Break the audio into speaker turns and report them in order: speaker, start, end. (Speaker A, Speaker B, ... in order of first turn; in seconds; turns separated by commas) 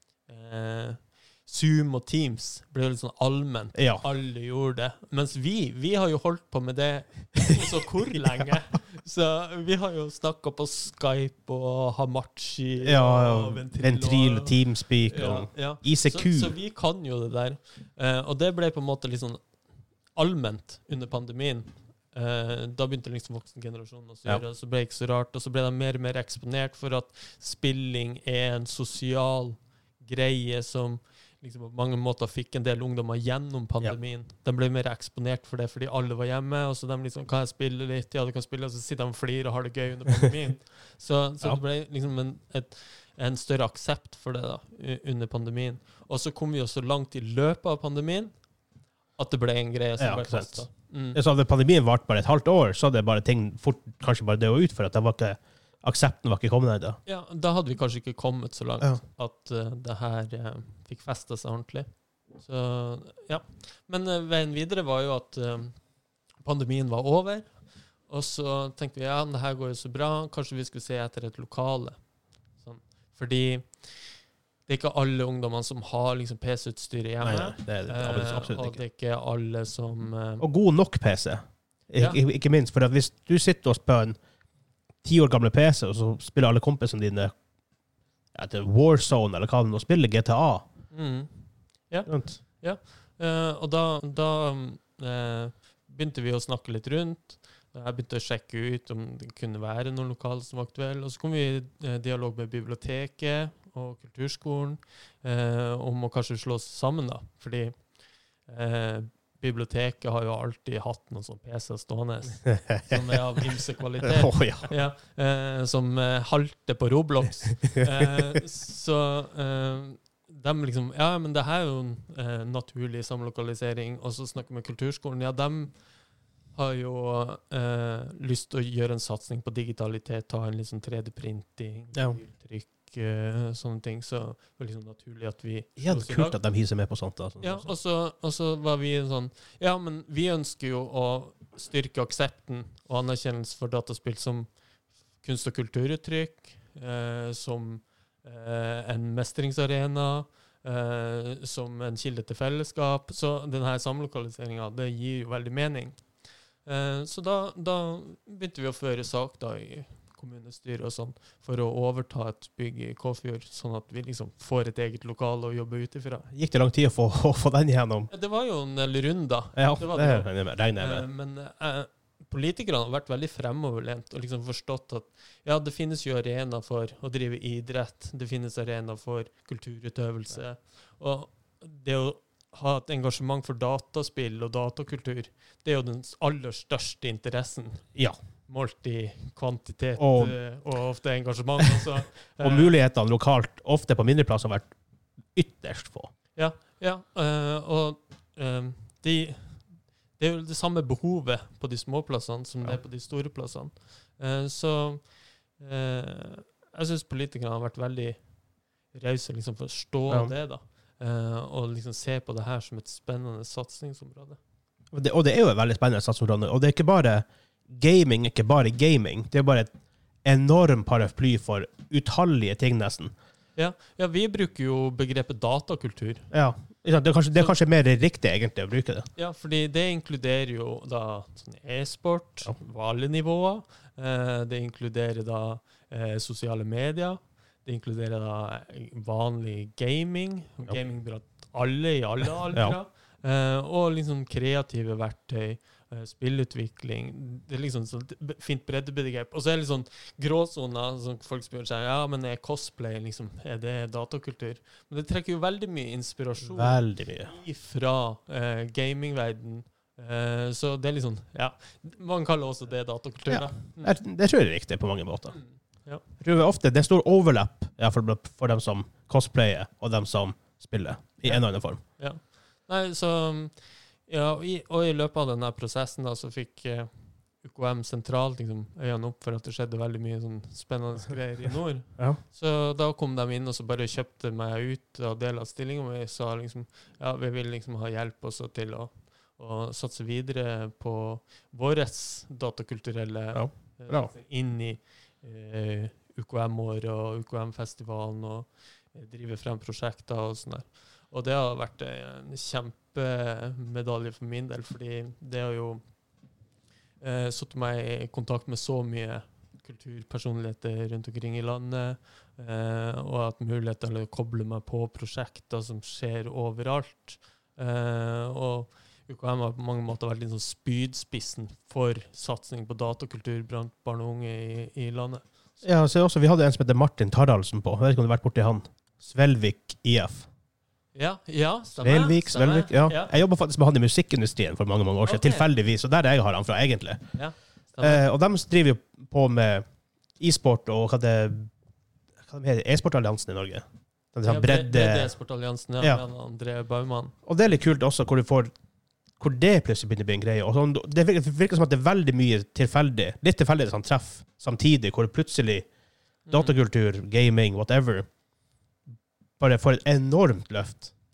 Speaker A: 0.3-19.4, Speaker B: 3.7-4.0, Speaker B: 12.8-16.5, Speaker A: 20.1-48.3, Speaker A: 49.2-51.2, Speaker B: 50.0-57.0, Speaker A: 57.0-61.9, Speaker A: 62.4-65.8, Speaker A: 66.4-67.5, Speaker A: 68.1-72.0, Speaker A: 72.6-73.8, Speaker A: 74.7-80.4, Speaker B: 77.2-78.8, Speaker B: 80.4-84.2, Speaker B: 85.0-87.3, Speaker B: 88.3-90.7, Speaker A: 90.9-107.7, Speaker B: 92.1-92.4, Speaker A: 108.5-125.7, Speaker B: 112.5-113.2, Speaker B: 114.0-114.7, Speaker B: 117.7-118.2, Speaker A: 126.5-136.3, Speaker B: 135.8-137.7, Speaker A: 137.4-144.5, Speaker A: 145.2-156.0, Speaker A: 156.6-166.3, Speaker B: 166.3-168.1, Speaker A: 168.1-187.9, Speaker B: 169.6-171.0, Speaker A: 188.5-192.7, Speaker B: 190.0-190.3, Speaker B: 192.4-194.7, Speaker B: 195.3-196.1, Speaker A: 196.3-199.6, Speaker A: 200.2-205.0, Speaker A: 205.6-208.2, Speaker A: 208.9-214.4, Speaker B: 214.9-219.7, Speaker B: 220.2-223.1, Speaker A: 223.6-226.3, Speaker B: 226.3-229.1, Speaker A: 229.2-263.9, Speaker B: 256.4-257.3, Speaker B: 263.3-265.4, Speaker A: 265.3-266.0, Speaker B: 266.2-271.8, Speaker A: 272.0-273.5, Speaker A: 274.1-276.9, Speaker A: 277.4-305.8, Speaker B: 293.3-294.1, Speaker A: 307.0-325.6, Speaker B: 325.6-330.3, Speaker A: 330.9-333.1, Speaker B: 331.8-337.0, Speaker A: 335.1-335.5, Speaker A: 337.1-338.0, Speaker B: 337.8-339.6, Speaker B: 340.2-341.5, Speaker B: 342.2-345.1, Speaker A: 344.2-347.1, Speaker B: 347.2-348.5, Speaker B: 349.2-355.7, Speaker A: 356.3-356.6, Speaker B: 356.3-358.1, Speaker B: 359.4-360.9